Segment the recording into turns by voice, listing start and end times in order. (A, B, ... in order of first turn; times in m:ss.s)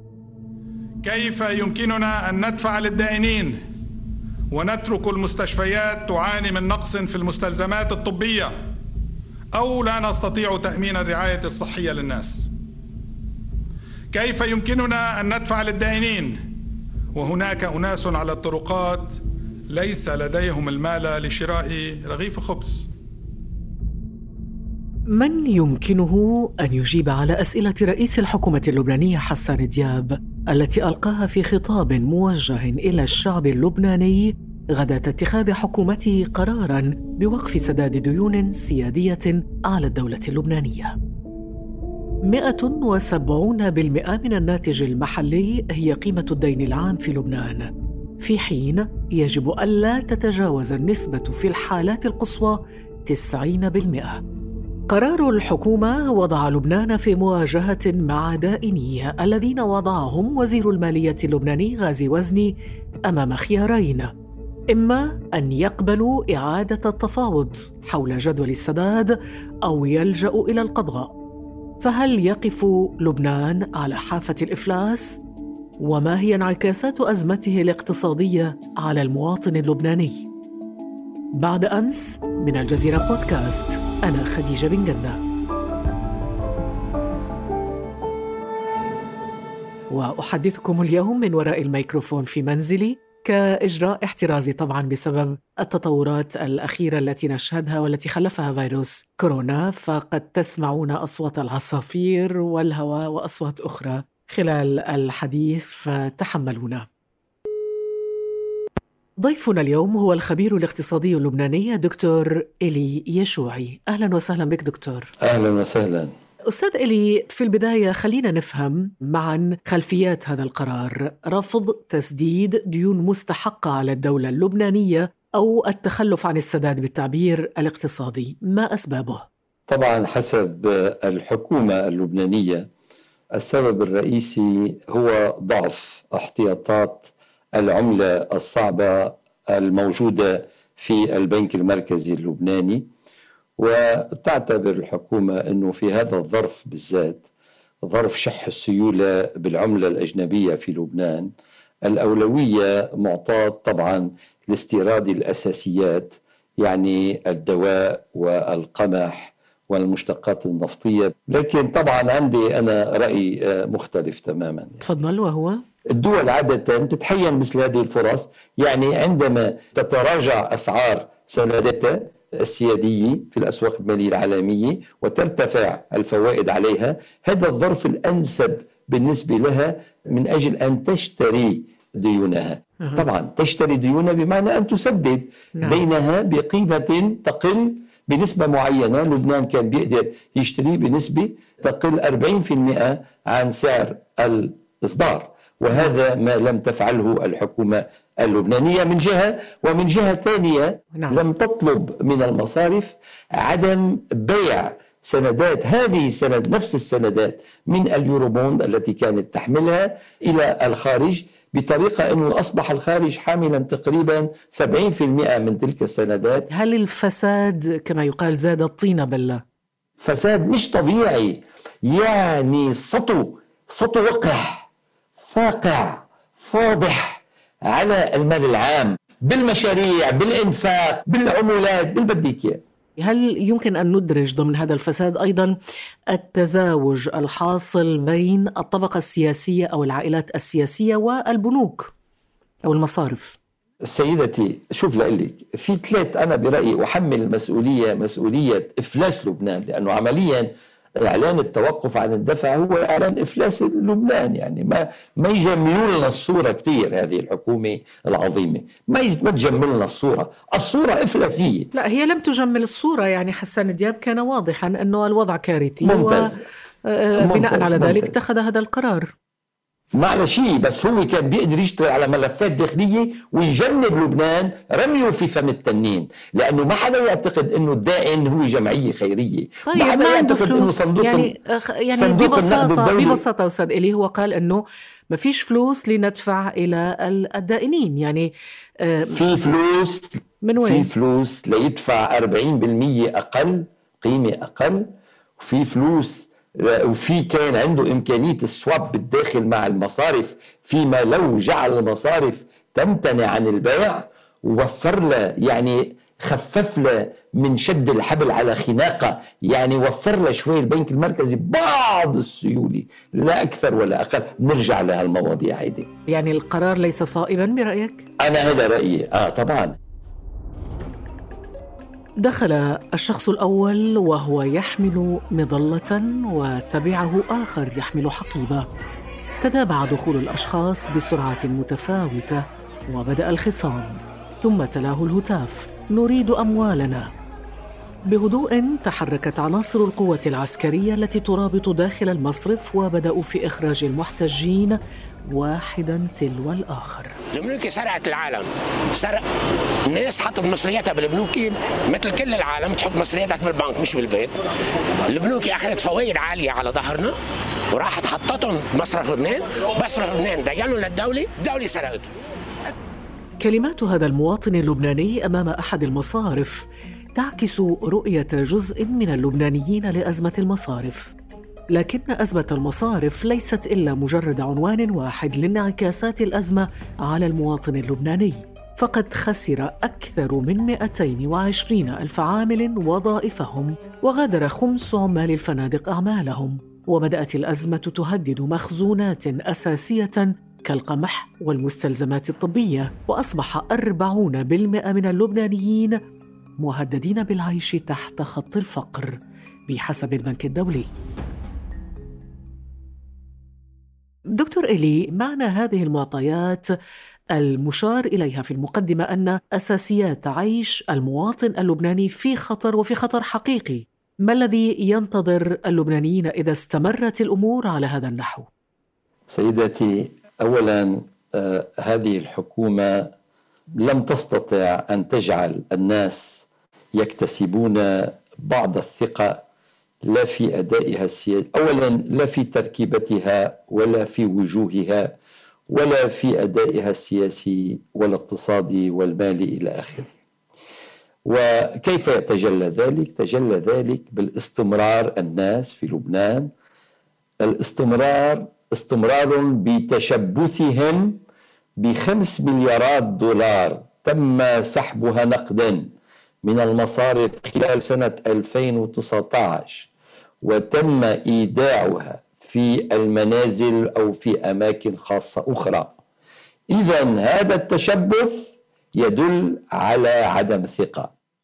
0:01.0-0:03.6 A
0:04.5-0:08.6 A
0:09.5-0:12.5 A
0:14.1-0:16.4 A
0:17.1-0:22.9 A
0:25.1-0:41.0 B
0:42.3-0:47.7 B
0:48.2-0:54.2 B
0:54.9-1:04.1 B
1:04.7-1:11.1 B
1:11.8-1:15.2 B
1:15.8-1:20.3 B
1:21.4-1:25.2 B
1:29.9-1:46.9 B
1:49.2-1:55.1 B
1:55.2-1:56.1 C
1:56.5-2:09.3 B
2:09.7-2:12.7 C
2:13.4-2:22.9 C
2:23.6-2:27.3 C
2:27.9-2:31.3 C
2:31.9-2:44.8 C
2:44.8-2:45.6 B
2:45.9-3:36.5 C
3:05.6-3:05.8 B
3:20.9-3:21.2 B
3:36.5-3:39.4 B
3:40.0-3:52.6 C
3:53.0-3:55.6 B
3:56.1-4:01.9 B
4:02.6-4:03.4 B
4:03.9-4:10.5 C
4:11.0-4:21.7 C
4:21.7-4:29.1 B
4:25.8-4:26.4 C
4:27.2-4:28.2 C
4:30.0-4:41.3 C
4:39.7-4:49.2 B
4:41.9-4:43.2 C
4:49.1-4:54.9 C
4:50.4-4:50.9 B
4:55.4-5:15.9 C
5:16.1-5:18.0 B
5:18.2-5:19.8 C
5:22.2-5:28.6 B
5:29.4-5:37.1 B
5:38.1-5:44.8 B
5:45.3-5:47.2 B
5:47.3-5:49.3 D
5:49.9-5:54.4 D
5:55.0-5:57.2 D
5:57.7-6:02.1 D
6:03.4-6:11.1 B
6:11.7-6:36.0 B
6:36.6-6:39.2 B
6:39.7-6:40.9 B
6:44.3-6:46.7 B
6:47.4-6:58.5 B
6:59.3-7:03.1 C
7:03.8-7:09.4 C
7:10.1-7:15.1 C
7:15.7-7:20.1 C
7:21.2-7:26.5 C
7:27.4-7:31.2 C
7:31.8-7:35.9 C
7:36.4-7:39.9 C
7:40.4-7:46.0 C
7:46.7-7:51.1 C